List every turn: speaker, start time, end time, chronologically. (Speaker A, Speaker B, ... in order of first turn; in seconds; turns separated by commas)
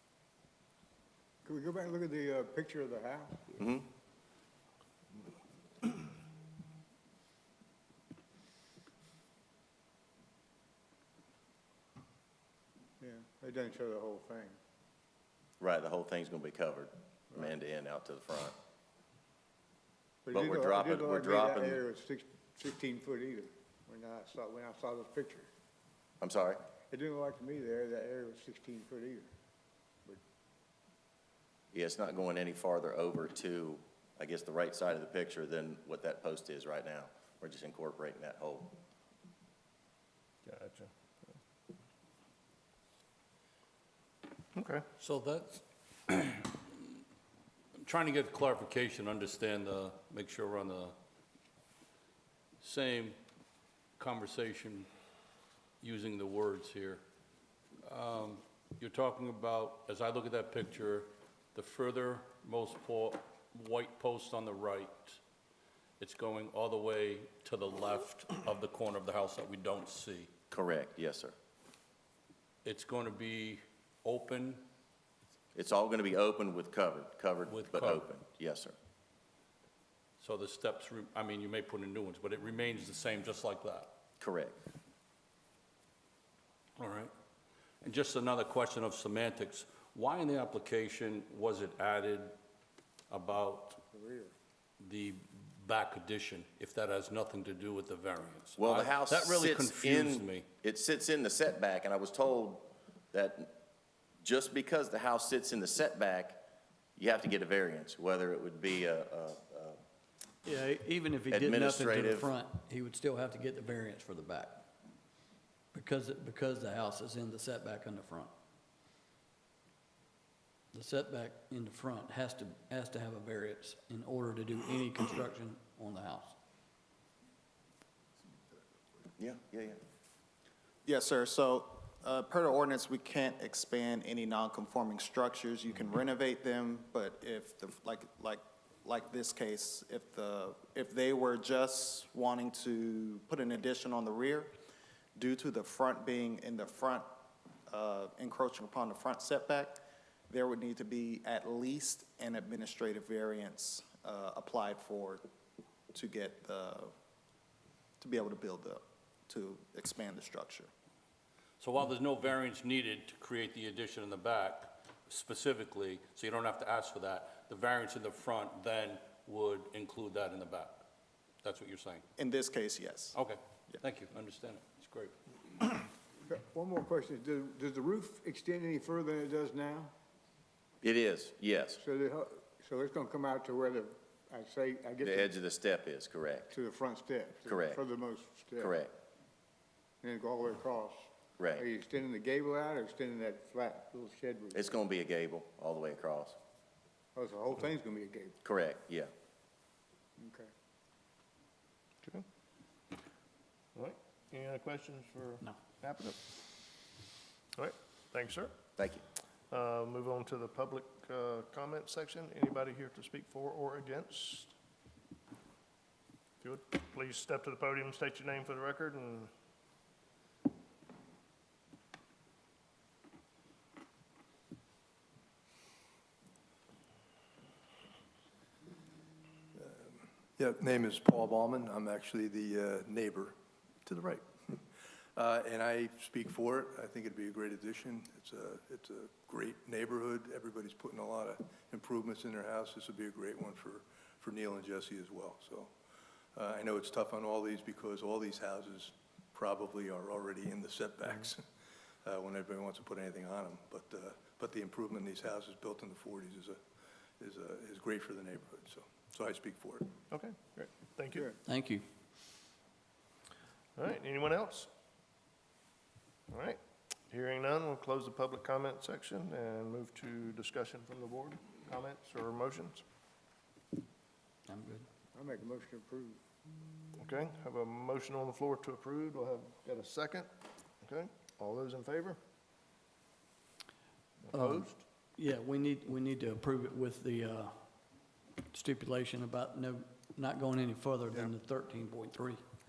Speaker A: 1.4-3.6, Speaker B: 3.6-3.9, Speaker A: 13.0-14.6, Speaker B: 15.6-18.6, Speaker A: 20.3-25.5, Speaker B: 20.3-21.8, Speaker B: 26.2-26.7, Speaker A: 26.9-29.3, Speaker B: 31.7-38.8, Speaker C: 40.5-40.9, Speaker C: 44.5-44.9, Speaker D: 45.0-47.0, Speaker D: 47.8-51.0, Speaker D: 52.6-53.2, Speaker D: 54.0-54.9, Speaker D: 55.8-57.0, Speaker D: 57.8-65.2, Speaker D: 66.0-70.3, Speaker B: 70.5-71.3, Speaker D: 72.7-74.6, Speaker B: 75.5-78.8, Speaker D: 77.5-78.1, Speaker D: 80.2-83.9, Speaker B: 84.2-84.6, Speaker D: 86.8-87.1, Speaker D: 87.8-92.3, Speaker D: 93.1-93.8, Speaker A: 93.9-94.3, Speaker D: 94.8-100.5, Speaker B: 98.6-103.6, Speaker B: 104.2-106.4, Speaker B: 107.0-109.8, Speaker E: 110.4-114.7, Speaker B: 111.3-112.3, Speaker E: 115.7-118.3, Speaker E: 120.7-126.4, Speaker B: 129.2-129.8, Speaker F: 130.8-144.5, Speaker F: 145.2-147.1, Speaker F: 147.7-155.2, Speaker F: 155.9-156.9, Speaker F: 158.0-160.7, Speaker D: 161.6-170.8, Speaker D: 171.4-172.0, Speaker F: 172.2-173.2, Speaker D: 173.1-175.1, Speaker A: 176.3-179.9, Speaker B: 180.8-181.8, Speaker A: 181.8-185.3, Speaker B: 185.0-186.5, Speaker A: 186.5-188.8, Speaker B: 187.4-187.8, Speaker B: 188.6-188.9, Speaker A: 190.0-191.0, Speaker B: 191.4-191.7, Speaker A: 191.6-194.7, Speaker B: 194.5-196.4, Speaker A: 197.2-198.4, Speaker B: 198.4-199.1, Speaker A: 200.2-200.5, Speaker C: 203.8-206.4, Speaker C: 207.6-208.5, Speaker B: 208.8-209.0, Speaker C: 209.5-214.5, Speaker C: 216.4-219.3, Speaker G: 229.6-245.7, Speaker G: 246.3-251.4, Speaker G: 252.0-256.6, Speaker G: 257.2-260.0, Speaker C: 260.1-261.3, Speaker E: 261.4-261.8, Speaker C: 263.8-264.7, Speaker C: 266.3-272.8, Speaker E: 274.5-274.9, Speaker A: 275.1-276.2, Speaker C: 277.0-280.3, Speaker C: 280.8-282.2, Speaker C: 284.3-284.8, Speaker E: 284.3-287.6, Speaker E: 288.5-292.4